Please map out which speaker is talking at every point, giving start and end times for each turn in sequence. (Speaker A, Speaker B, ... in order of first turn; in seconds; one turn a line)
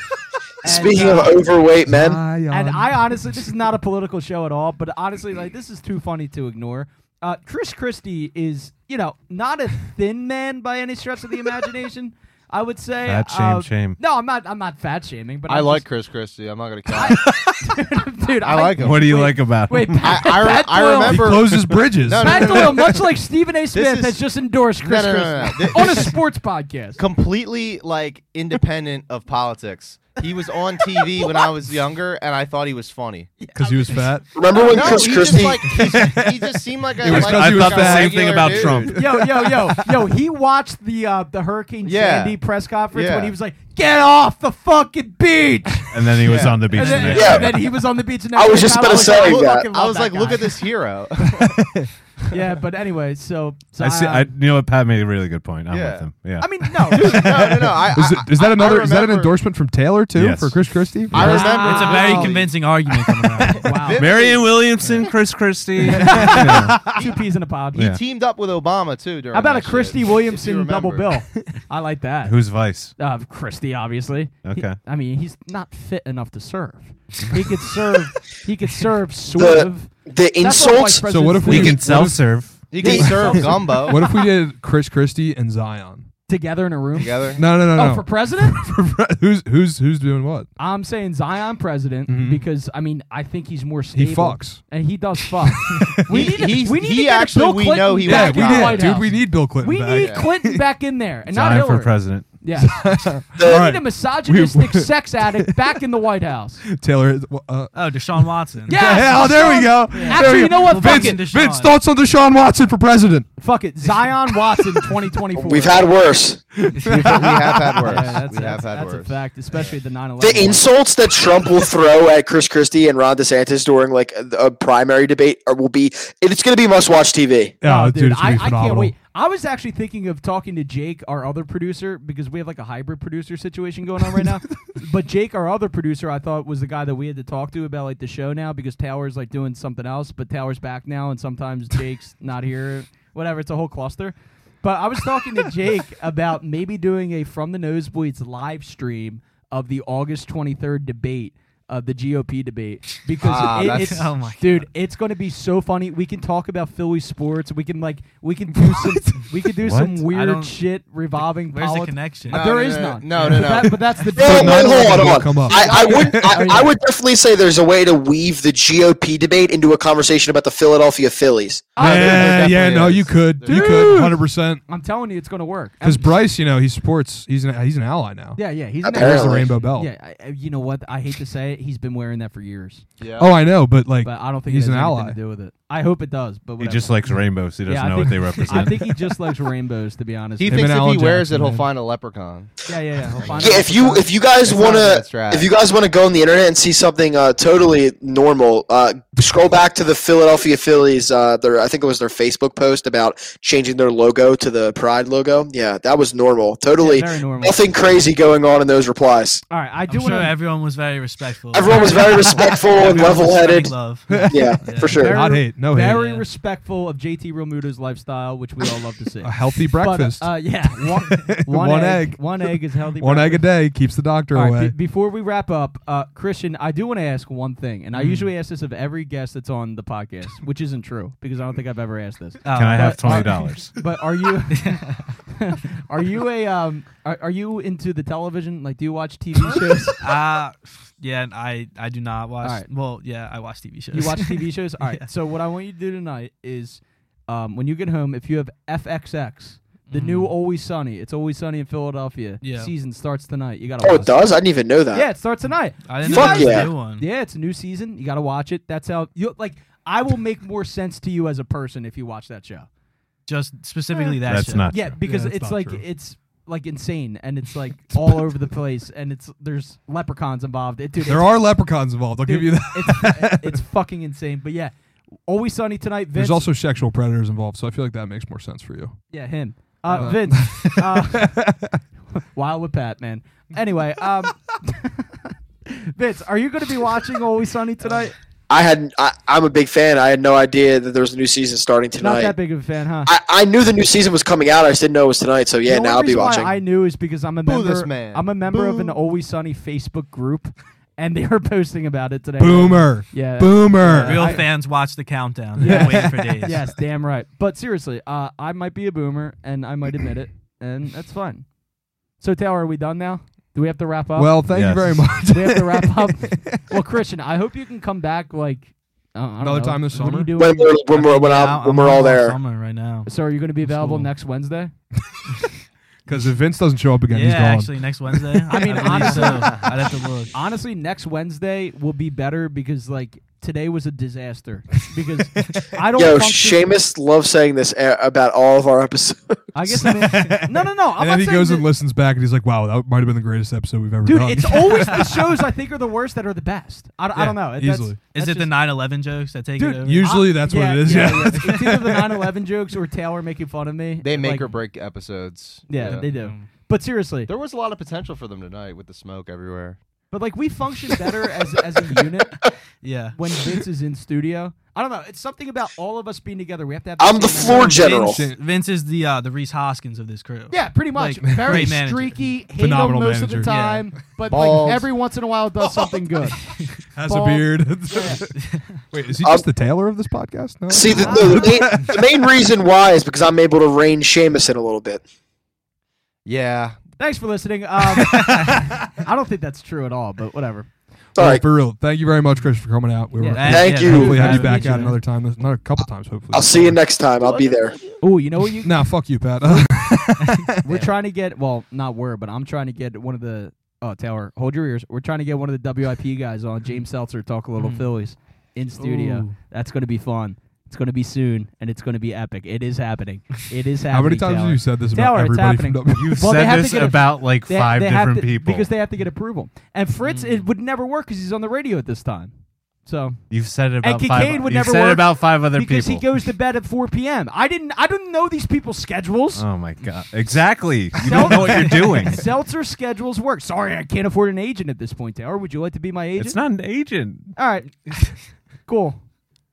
Speaker A: 0.6-1.4
Speaker B: 0.6-2.2
Speaker C: 1.9-3.2
Speaker A: 2.5-15.8
Speaker D: 13.0-14.0
Speaker E: 15.5-17.3
Speaker A: 16.9-21.4
Speaker E: 18.4-19.3
Speaker D: 18.8-20.2
Speaker E: 20.0-23.0
Speaker C: 21.0-23.0
Speaker D: 21.6-21.8
Speaker A: 22.2-27.0
Speaker E: 23.7-24.2
Speaker E: 24.8-26.2
Speaker C: 25.7-26.1
Speaker E: 27.0-33.3
Speaker A: 33.4-35.4
Speaker C: 33.5-34.4
Speaker B: 34.3-35.6
Speaker E: 34.6-38.9
Speaker C: 35.6-40.0
Speaker D: 37.0-38.9
Speaker A: 38.9-50.6
Speaker E: 41.8-42.4
Speaker E: 42.9-43.3
Speaker D: 45.9-47.7
Speaker F: 46.8-47.4
Speaker B: 47.2-47.5
Speaker B: 48.3-49.6
Speaker E: 48.8-51.6
Speaker C: 51.4-51.9
Speaker A: 52.3-54.3
Speaker D: 53.8-56.5
Speaker E: 55.7-56.1
Speaker A: 56.4-57.3
Speaker E: 56.9-59.4
Speaker C: 57.2-61.8
Speaker D: 60.1-61.4
Speaker E: 61.1-62.6
Speaker A: 61.2-62.4
Speaker F: 61.2-63.7
Speaker A: 63.6-64.0
Speaker E: 63.6-65.1
Speaker D: 63.9-66.8
Speaker A: 65.8-67.8
Speaker C: 66.0-66.8
Speaker E: 66.0-67.2
Speaker E: 67.8-71.2
Speaker A: 69.3-72.3
Speaker D: 72.2-72.9
Speaker A: 73.0-81.8
Speaker D: 74.4-74.8
Speaker B: 79.4-81.0
Speaker C: 81.0-86.0
Speaker D: 81.4-82.7
Speaker E: 82.7-84.1
Speaker A: 82.8-84.2
Speaker A: 86.3-88.6
Speaker E: 86.9-87.4
Speaker C: 87.4-90.5
Speaker A: 90.6-102.8
Speaker C: 92.1-92.4
Speaker C: 93.9-94.7
Speaker C: 95.6-96.5
Speaker E: 96.1-99.1
Speaker C: 98.0-100.6
Speaker E: 99.9-100.3
Speaker D: 101.3-102.3
Speaker C: 102.6-105.8
Speaker A: 103.4-106.6
Speaker B: 103.4-103.6
Speaker C: 106.6-113.3
Speaker F: 107.7-109.3
Speaker A: 108.7-111.2
Speaker F: 110.0-111.7
Speaker A: 113.4-115.9
Speaker B: 115.3-116.4
Speaker C: 116.6-118.0
Speaker E: 116.9-119.1
Speaker A: 117.7-120.6
Speaker B: 120.2-127.6
Speaker C: 127.6-128.9
Speaker A: 127.6-166.8
Speaker E: 153.2-154.1
Speaker F: 153.6-154.7
Speaker C: 158.6-159.2
Speaker D: 159.6-160.1
Speaker F: 160.1-160.6
Speaker F: 161.5-162.4
Speaker E: 162.3-163.9
Speaker C: 164.1-166.5
Speaker B: 164.2-171.7
Speaker A: 171.8-172.7
Speaker E: 171.8-174.1
Speaker C: 171.8-174.6
Speaker A: 173.4-176.2
Speaker C: 175.8-178.4
Speaker A: 178.3-182.8
Speaker B: 178.8-179.5
Speaker C: 178.9-179.9
Speaker E: 183.0-183.3
Speaker C: 183.2-185.2
Speaker A: 184.0-190.7
Speaker D: 186.6-188.9
Speaker E: 190.4-192.6
Speaker C: 190.5-191.7
Speaker A: 192.7-194.1
Speaker E: 193.2-193.7
Speaker B: 193.4-209.4
Speaker E: 194.4-195.5
Speaker A: 206.8-207.9
Speaker A: 209.5-210.3
Speaker F: 209.9-215.1
Speaker B: 211.5-215.1
Speaker A: 211.7-213.1
Speaker C: 214.1-216.2
Speaker A: 214.9-223.7
Speaker F: 216.0-216.2
Speaker C: 219.2-224.7
Speaker A: 224.3-240.0
Speaker F: 227.9-228.3
Speaker F: 232.4-233.6
Speaker D: 232.5-233.7
Speaker F: 234.5-235.0
Speaker F: 240.0-245.0
Speaker A: 243.9-254.2
Speaker F: 249.9-250.3
Speaker F: 252.4-252.7
Speaker B: 253.8-255.1
Speaker A: 254.9-262.7
Speaker F: 255.9-257.0
Speaker B: 256.0-256.7
Speaker F: 263.3-264.7
Speaker D: 264.2-264.8
Speaker A: 264.7-271.4
Speaker C: 264.7-265.8
Speaker C: 271.0-273.6
Speaker A: 272.2-274.7
Speaker A: 275.3-276.5
Speaker C: 276.1-279.0
Speaker A: 279.1-281.3
Speaker C: 279.9-281.8
Speaker A: 282.3-288.1
Speaker B: 288.5-292.4
Speaker A: 292.0-293.1
Speaker B: 293.1-296.6
Speaker A: 295.6-304.5
Speaker E: 297.4-299.0
Speaker C: 302.4-304.4
Speaker F: 303.9-306.6
Speaker A: 305.6-311.5
Speaker C: 305.6-306.5
Speaker A: 312.2-314.4
Speaker C: 314.1-316.6
Speaker D: 314.5-315.1
Speaker A: 315.2-320.7
Speaker C: 319.4-320.3
Speaker B: 320.4-322.4
Speaker F: 320.9-323.1
Speaker A: 323.1-324.7
Speaker F: 323.7-324.0
Speaker C: 326.1-329.7
Speaker F: 327.1-330.3
Speaker A: 328.5-329.7
Speaker A: 330.3-336.7
Speaker B: 335.9-339.4
Speaker A: 339.5-341.7
Speaker C: 339.7-345.2
Speaker A: 344.0-348.5
Speaker C: 347.1-348.0
Speaker F: 348.1-350.3
Speaker A: 349.6-354.5
Speaker C: 349.8-352.0
Speaker F: 351.0-351.6
Speaker E: 354.0-356.0
Speaker A: 355.7-357.3
Speaker F: 355.8-356.5
Speaker E: 357.3-359.8
Speaker A: 360.1-362.4
Speaker F: 362.8-363.1
Speaker A: 363.1-367.9
Speaker B: 367.0-368.2
Speaker C: 367.5-368.4
Speaker F: 367.6-372.3
Speaker A: 370.5-376.4
Speaker C: 371.2-371.9
Speaker C: 372.6-373.5
Speaker F: 373.5-373.9
Speaker E: 374.3-374.9
Speaker C: 376.9-382.0
Speaker A: 377.0-378.2
Speaker F: 378.3-378.8
Speaker B: 380.7-385.0
Speaker A: 380.9-381.6
Speaker E: 386.2-386.8
Speaker A: 387.0-390.7
Speaker C: 388.1-388.8
Speaker B: 391.1-391.4
Speaker C: 391.2-396.8
Speaker A: 393.1-395.0
Speaker F: 393.4-395.0
Speaker B: 393.5-394.2
Speaker B: 396.3-397.8
Speaker E: 397.2-397.8
Speaker A: 398.0-398.9
Speaker C: 398.6-400.8
Speaker A: 400.6-422.3
Speaker F: 407.6-407.9
Speaker F: 408.8-409.3
Speaker C: 413.9-416.3
Speaker D: 415.9-418.7
Speaker F: 420.0-420.5
Speaker A: 422.8-429.4
Speaker D: 423.3-426.1
Speaker D: 429.4-432.3
Speaker A: 430.9-436.4
Speaker D: 436.2-437.3
Speaker A: 437.3-438.1
Speaker A: 438.6-439.0